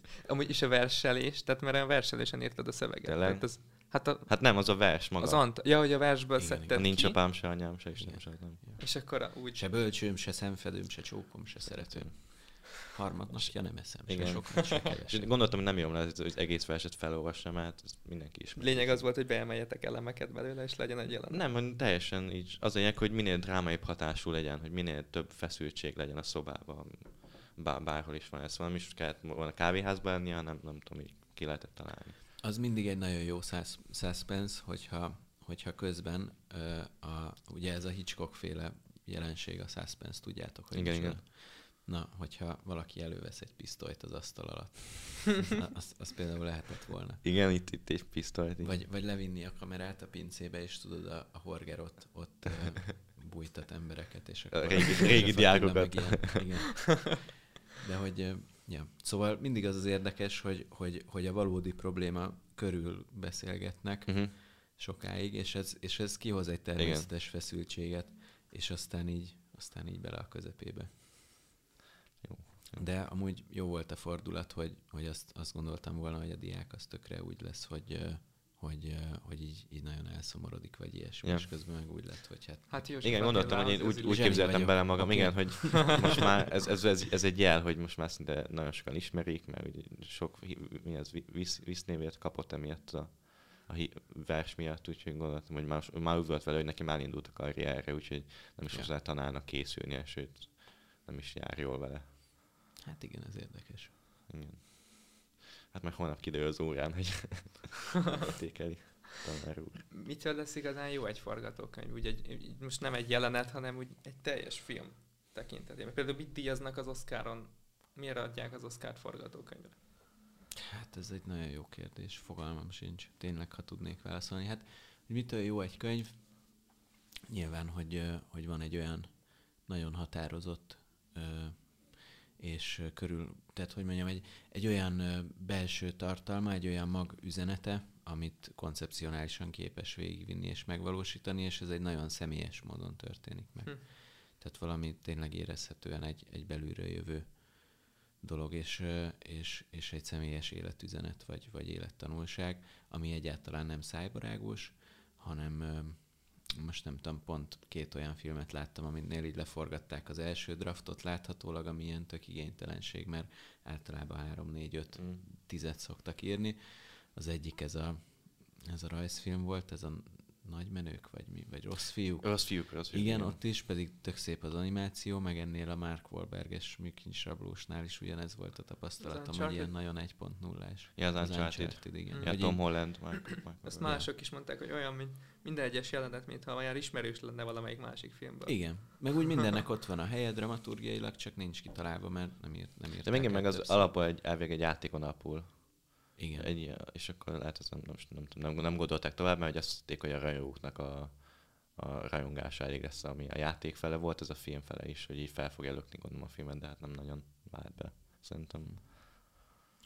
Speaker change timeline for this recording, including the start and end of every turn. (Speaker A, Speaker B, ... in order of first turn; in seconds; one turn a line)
Speaker A: 0.2-7.2
Speaker B: 3.0-5.5
Speaker C: 6.4-15.3
Speaker B: 6.7-8.6
Speaker A: 8.8-9.6
Speaker B: 11.7-12.6
Speaker B: 13.3-19.1
Speaker A: 18.6-21.4
Speaker B: 21.3-32.2
Speaker C: 32.4-47.2
Speaker B: 40.7-41.2
Speaker B: 47.2-48.8
Speaker C: 48.6-71.0
Speaker B: 54.5-56.4
Speaker B: 64.1-64.3
Speaker B: 66.8-67.1
Speaker B: 72.2-72.8
Speaker C: 72.7-83.2
Speaker A: 82.7-84.7
Speaker B: 83.0-102.1
Speaker C: 84.0-86.1
Speaker C: 102.8-103.9
Speaker B: 104.3-109.9
Speaker A: 110.0-119.8
Speaker C: 120.7-183.3
Speaker B: 164.9-165.2
Speaker B: 172.2-173.4
Speaker A: 179.0-179.7
Speaker B: 180.9-183.9
Speaker A: 182.1-189.2
Speaker C: 183.8-184.1
Speaker C: 188.4-193.9
Speaker B: 193.0-208.9
Speaker C: 196.2-196.5